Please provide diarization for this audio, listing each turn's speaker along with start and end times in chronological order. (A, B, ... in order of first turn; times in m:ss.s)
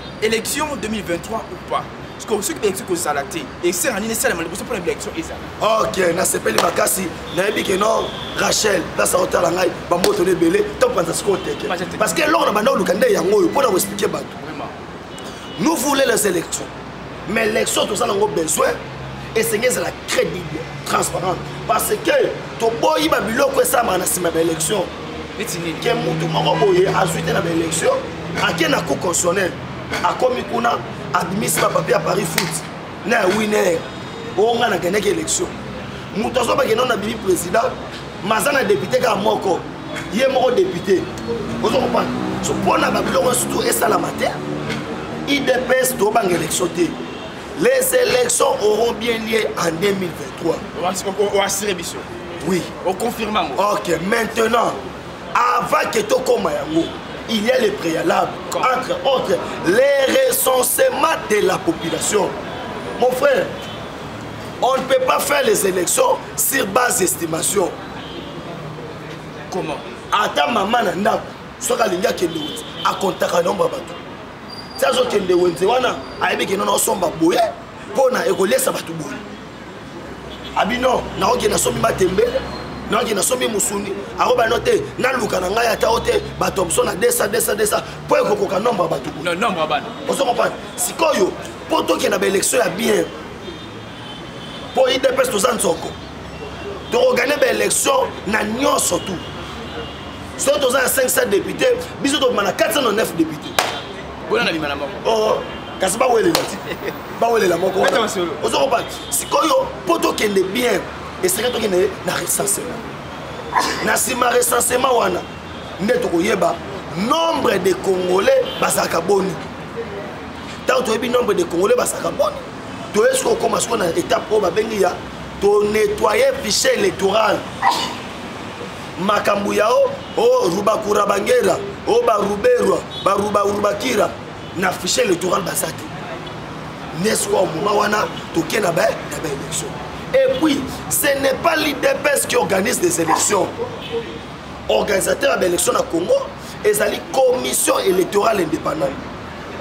0:00.2-0:05.4 A
0:05.6-0:14.3 B
0:11.7-0:12.2 A
0:14.4-0:14.7 A
0:15.6-0:16.7 B
0:17.3-0:18.8 B
0:19.4-0:24.9 B
0:25.4-0:25.9 A
0:25.8-0:33.8 B
0:34.4-0:35.5 B
0:36.1-0:41.1 B
0:41.6-0:44.4 B
0:45.3-0:47.0 B
0:47.6-0:50.6 B
0:50.7-0:52.1 A
0:52.4-0:52.7 B
0:52.8-0:53.6 A
0:53.6-0:54.8 B
0:55.4-1:02.4 B
1:03.0-1:03.5 B
1:04.6-1:07.7 B
1:09.5-1:09.8 A
1:10.1-1:14.0 B
1:14.8-1:19.2 B
1:20.6-1:29.3 B
1:29.2-1:29.9 A
1:30.1-1:33.1 B
1:34.7-1:36.0 B
1:36.9-1:39.2 B
1:40.4-1:43.6 B
1:44.3-1:45.0 A
1:45.0-1:46.6 B
1:47.2-1:52.8 B
1:47.8-1:48.4 A
1:53.8-1:55.2 B
1:55.8-1:59.4 B
2:00.7-2:07.4 B
2:09.0-2:15.9 B
2:16.9-2:23.5 B
2:24.7-2:29.0 B